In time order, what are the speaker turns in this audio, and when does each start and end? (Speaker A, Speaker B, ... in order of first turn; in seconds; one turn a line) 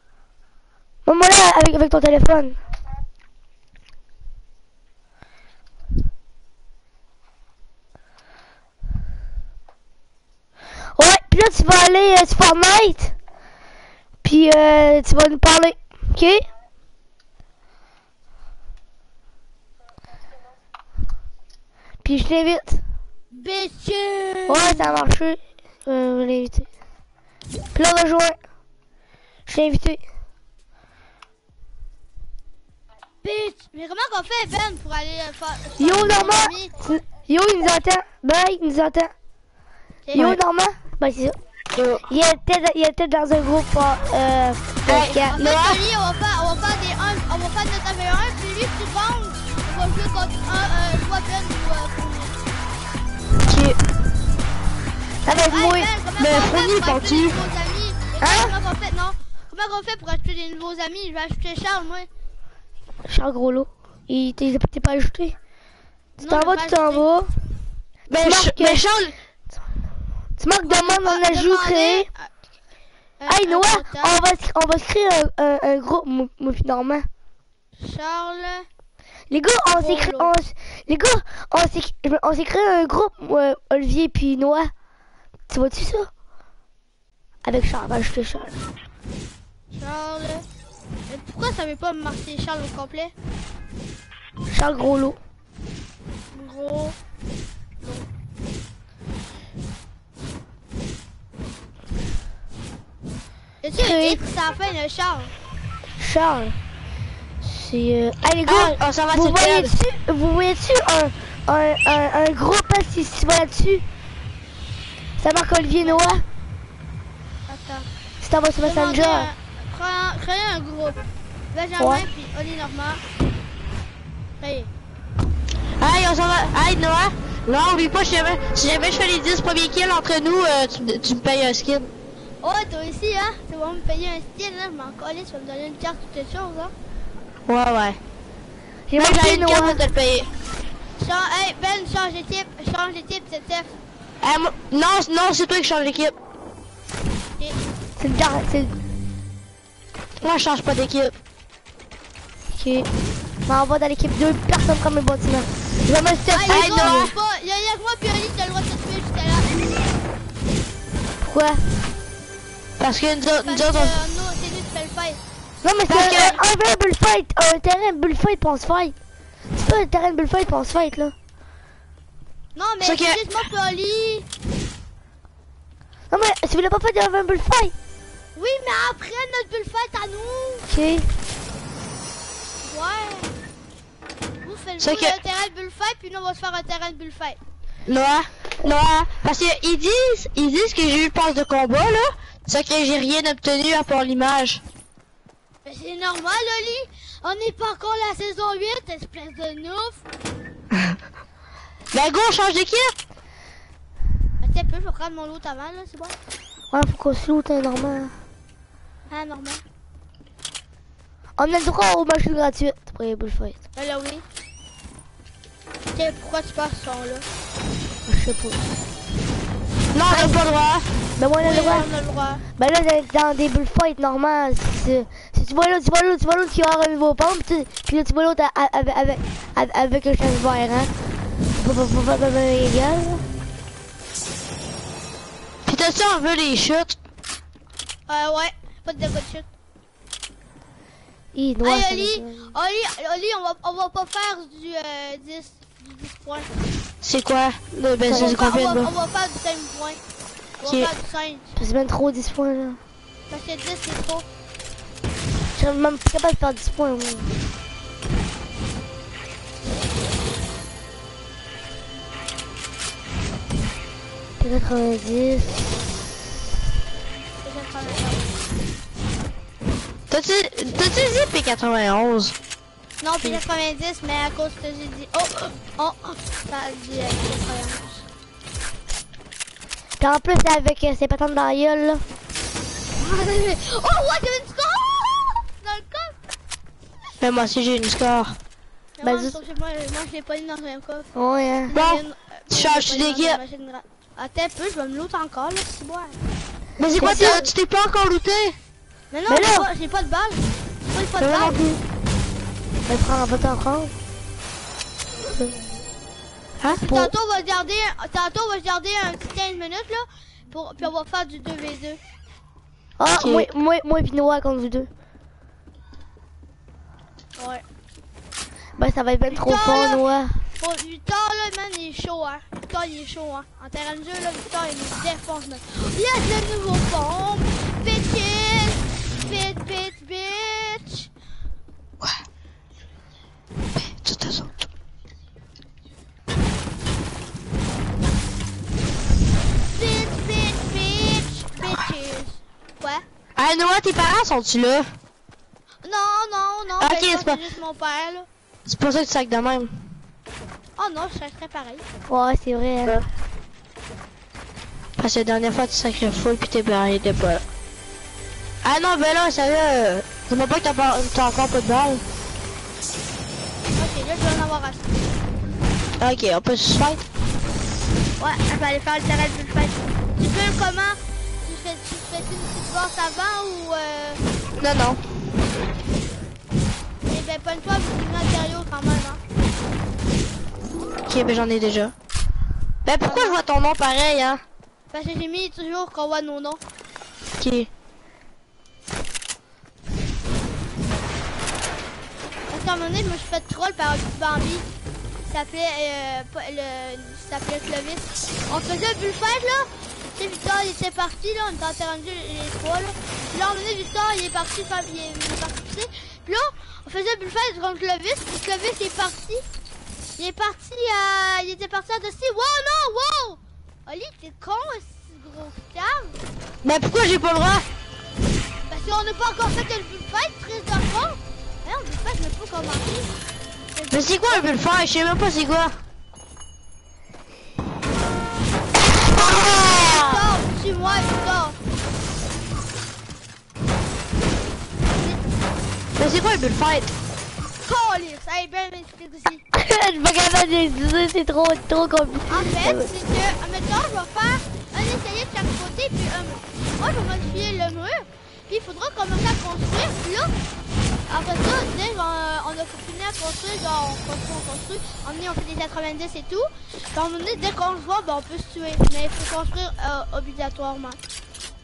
Speaker A: 1.1-2.6
Speaker A: 10.9-13.1
Speaker A: 14.2-16.5
Speaker A: 22.0-22.8
Speaker B: 23.3-25.0
Speaker A: 24.5-26.7
Speaker A: 27.7-28.4
Speaker A: 29.5-30.0
Speaker B: 33.2-36.7
Speaker A: 35.8-39.1
Speaker B: 40.0-40.4
Speaker A: 40.1-41.4
Speaker C: 40.1-40.4
Speaker C: 41.7-42.0
Speaker A: 42.1-45.5
Speaker C: 44.9-45.8
Speaker B: 45.2-52.3
Speaker C: 53.4-53.8
Speaker A: 55.2-55.9
Speaker B: 55.5-62.1
Speaker C: 56.2-57.4
Speaker A: 58.2-58.5
Speaker A: 63.0-65.3
Speaker B: 66.2-67.0
Speaker A: 66.2-67.3
Speaker C: 68.1-69.1
Speaker A: 68.2-68.8
Speaker A: 70.4-72.1
Speaker B: 70.6-72.3
Speaker B: 73.2-74.2
Speaker A: 73.3-77.1
Speaker B: 77.8-78.7
Speaker A: 79.3-84.7
Speaker B: 79.8-80.3
Speaker A: 85.5-86.1
Speaker A: 87.4-88.6
Speaker B: 89.7-90.5
Speaker B: 91.1-93.1
Speaker A: 94.5-95.2
Speaker B: 96.3-97.0
Speaker B: 103.6-105.3
Speaker A: 103.8-104.2
Speaker A: 106.0-106.6
Speaker A: 107.4-113.8
Speaker C: 108.4-109.7
Speaker A: 115.2-116.2
Speaker B: 115.8-116.2
Speaker B: 117.5-117.9
Speaker A: 118.2-119.3
Speaker B: 118.6-121.0
Speaker B: 121.5-123.0
Speaker A: 121.8-122.0
Speaker B: 124.4-124.7
Speaker C: 125.8-131.9
Speaker B: 132.4-136.7
Speaker C: 137.5-138.0
Speaker A: 138.9-139.8
Speaker C: 138.9-140.3
Speaker B: 141.0-143.7
Speaker C: 144.2-146.1
Speaker A: 148.0-148.7
Speaker C: 150.2-151.1
Speaker A: 152.5-152.9
Speaker A: 153.5-157.1
Speaker B: 156.3-159.7
Speaker C: 156.5-157.1
Speaker A: 161.2-161.7
Speaker C: 162.8-164.0
Speaker B: 163.4-165.2
Speaker A: 165.6-168.9
Speaker C: 165.9-166.4
Speaker A: 169.6-171.1
Speaker B: 172.6-174.3
Speaker C: 172.8-173.3
Speaker A: 176.1-177.7
Speaker B: 178.3-180.7
Speaker A: 180.7-181.1
Speaker B: 182.6-183.3
Speaker B: 184.4-187.4
Speaker C: 184.8-185.2
Speaker C: 187.8-194.6
Speaker B: 195.6-200.0
Speaker C: 201.9-202.9
Speaker B: 204.4-206.1
Speaker A: 206.7-208.1
Speaker B: 209.1-209.6
Speaker A: 211.4-213.6
Speaker B: 213.8-214.2
Speaker B: 215.9-217.2
Speaker A: 218.1-218.6
Speaker C: 219.9-220.9
Speaker B: 220.1-220.4
Speaker A: 221.2-221.9
Speaker B: 221.4-222.4
Speaker A: 222.6-230.9
Speaker A: 231.5-233.2
Speaker C: 235.6-237.0
Speaker B: 238.1-239.5
Speaker A: 241.3-242.5
Speaker B: 241.6-246.5
Speaker C: 247.0-248.9
Speaker A: 248.1-248.4
Speaker B: 248.1-250.0
Speaker B: 250.6-251.5
Speaker C: 250.6-250.9
Speaker A: 251.6-252.8
Speaker B: 253.3-254.2
Speaker A: 255.6-257.4
Speaker A: 264.4-265.8
Speaker B: 267.4-268.3
Speaker C: 270.1-272.3
Speaker B: 273.0-278.1
Speaker A: 280.0-282.0
Speaker B: 283.0-286.1
Speaker C: 287.2-288.4
Speaker B: 289.0-291.1
Speaker A: 289.0-289.4
Speaker A: 291.1-291.8
Speaker B: 291.7-296.2
Speaker C: 291.7-293.4
Speaker C: 296.8-298.6
Speaker A: 297.0-297.5
Speaker B: 297.0-297.5
Speaker B: 299.1-301.6
Speaker A: 299.3-299.7
Speaker C: 301.2-301.8
Speaker A: 302.9-303.9
Speaker A: 305.3-305.5
Speaker A: 306.6-307.1
Speaker B: 306.6-312.0
Speaker A: 313.0-314.9
Speaker C: 313.2-313.5
Speaker B: 317.4-317.6
Speaker A: 318.8-320.4
Speaker B: 319.3-320.0
Speaker B: 320.6-331.1
Speaker C: 333.8-334.6
Speaker B: 339.7-343.0
Speaker C: 343.4-344.9
Speaker B: 345.8-348.3
Speaker C: 346.8-347.4
Speaker C: 348.6-349.7
Speaker B: 350.8-351.8
Speaker A: 352.1-353.0
Speaker C: 355.0-357.4
Speaker C: 358.6-362.0
Speaker B: 363.7-364.8
Speaker C: 366.0-367.0
Speaker B: 368.2-374.2
Speaker C: 374.6-375.0
Speaker B: 377.0-379.2
Speaker C: 381.1-381.9
Speaker C: 382.8-384.4
Speaker B: 383.0-383.4
Speaker B: 384.9-386.6
Speaker C: 387.4-387.7
Speaker B: 392.5-394.6
Speaker B: 395.3-409.4
Speaker B: 410.2-416.1
Speaker C: 416.6-417.6
Speaker B: 418.7-423.1
Speaker B: 423.7-424.5
Speaker C: 423.9-425.8
Speaker C: 428.9-430.3
Speaker B: 428.9-431.6
Speaker B: 434.9-435.2
Speaker C: 436.0-436.9
Speaker B: 437.6-439.4
Speaker A: 439.5-442.9
Speaker B: 442.3-450.3
Speaker B: 451.1-461.0